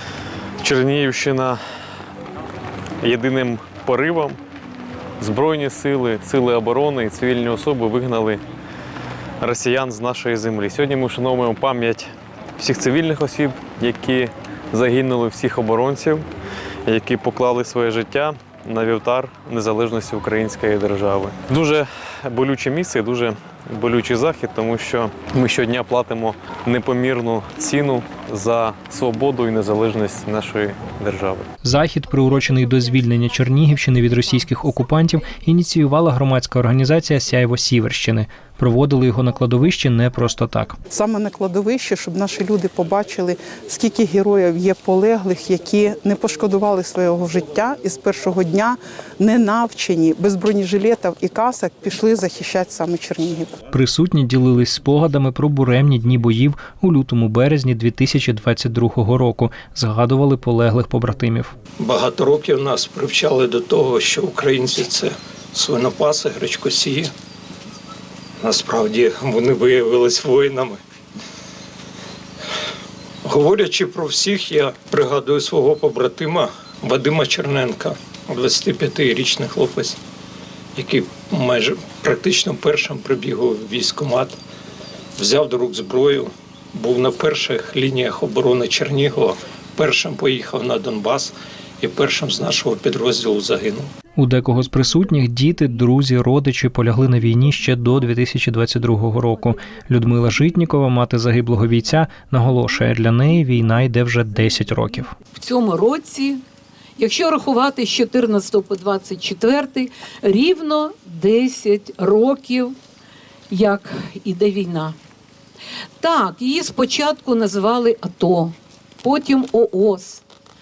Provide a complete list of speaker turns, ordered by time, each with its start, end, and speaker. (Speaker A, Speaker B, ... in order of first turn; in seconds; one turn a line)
Speaker A: 0.6-1.6
Speaker A: 3.0-4.4
Speaker A: 5.2-8.4
Speaker A: 9.4-16.2
Speaker A: 16.9-31.5
Speaker B: 31.6-40.8
Speaker C: 40.9-53.5
Speaker B: 53.7-61.5
Speaker D: 61.8-67.1
Speaker D: 68.4-70.8
Speaker D: 73.2-80.0
Speaker D: 80.8-84.3
Speaker D: 85.2-93.9
Speaker B: 94.2-105.1
Speaker E: 105.3-106.4
Speaker E: 107.0-112.8
Speaker E: 113.5-115.0
Speaker E: 116.0-120.2